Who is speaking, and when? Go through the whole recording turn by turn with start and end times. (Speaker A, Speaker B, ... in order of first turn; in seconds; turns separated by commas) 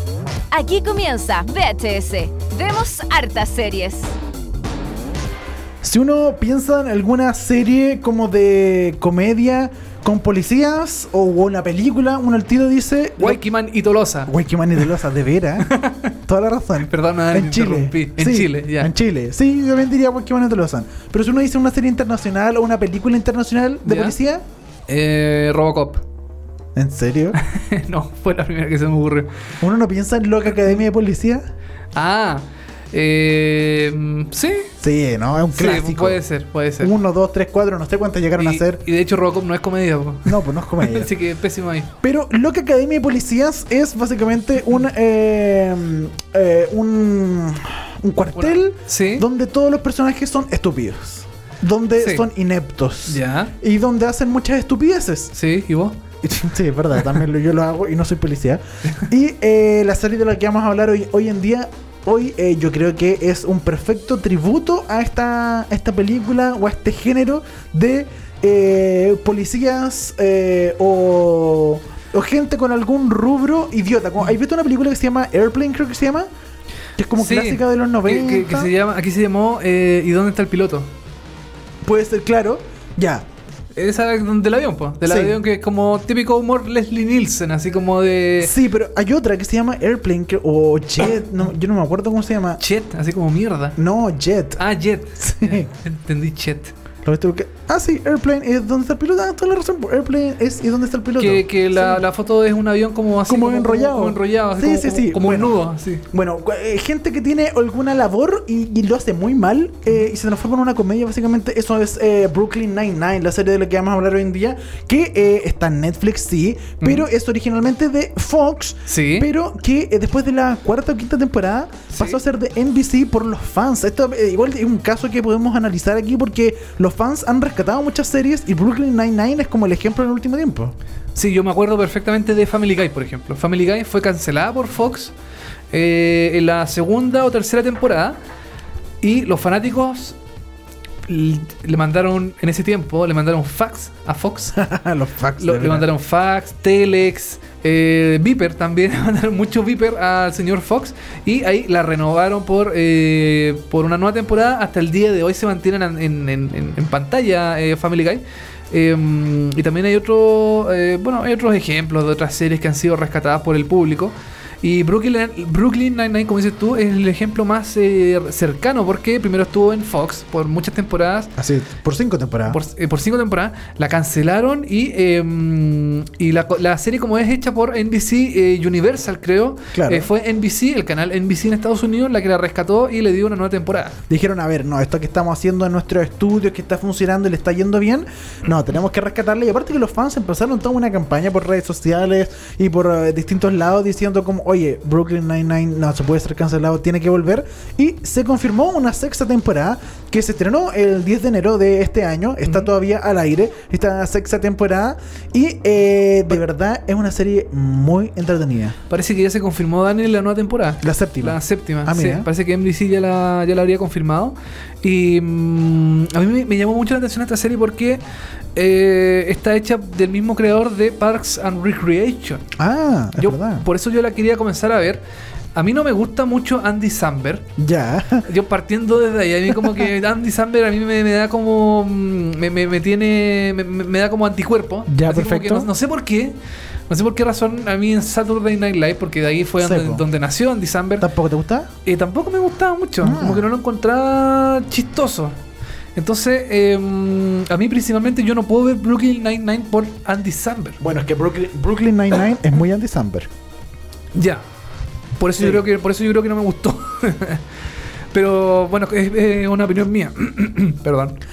Speaker A: 0.5-4.1, Speaker B: 5.8-13.4, Speaker C: 13.2-14.9, Speaker B: 14.3-15.7, Speaker C: 15.6-16.2, Speaker B: 16.3-24.4, Speaker C: 16.9-18.9, Speaker C: 23.8-24.2, Speaker C: 24.9-26.0, Speaker B: 26.8-27.4, Speaker C: 27.3-29.3, Speaker B: 29.6-31.4, Speaker C: 30.6-30.8, Speaker C: 31.9-34.7, Speaker B: 34.8-36.2, Speaker C: 35.5-37.0, Speaker B: 36.8-38.8, Speaker C: 38.4-41.9, Speaker B: 40.2-41.1, Speaker B: 42.0-55.3, Speaker C: 48.3-49.3, Speaker C: 52.0-52.3, Speaker C: 53.1-53.5, Speaker C: 55.3-56.0, Speaker B: 56.2-76.3, Speaker B: 77.0-78.7, Speaker C: 77.2-80.9, Speaker B: 81.8-83.2, Speaker C: 83.8-88.5, Speaker B: 85.0-85.4, Speaker B: 88.4-92.6, Speaker C: 92.6-93.8, Speaker B: 93.8-94.6, Speaker C: 94.6-96.7, Speaker B: 95.2-95.7, Speaker B: 97.0-102.0, Speaker C: 101.2-106.1, Speaker B: 103.3-130.8, Speaker C: 116.8-117.1, Speaker C: 118.9-119.3, Speaker C: 121.9-122.2, Speaker C: 131.2-135.2, Speaker C: 135.7-138.2, Speaker C: 139.0-140.2, Speaker C: 141.1-144.6, Speaker B: 144.6-145.9, Speaker C: 145.4-171.3, Speaker B: 171.4-172.6, Speaker C: 172.5-184.0, Speaker B: 179.7-180.1, Speaker B: 184.1-208.8, Speaker C: 208.9-218.0, Speaker B: 210.8-212.3, Speaker C: 218.6-222.4, Speaker B: 222.6-223.7, Speaker C: 223.2-225.0, Speaker C: 225.6-227.5, Speaker B: 227.6-228.3, Speaker C: 228.2-236.4, Speaker B: 234.9-235.7, Speaker C: 236.9-241.1, Speaker B: 239.6-240.1, Speaker B: 241.0-241.7, Speaker C: 241.8-245.4, Speaker B: 243.0-243.5, Speaker C: 245.9-250.8, Speaker B: 250.8-253.3, Speaker C: 254.1-254.4, Speaker C: 255.2-257.5, Speaker B: 255.4-255.6, Speaker C: 258.1-261.2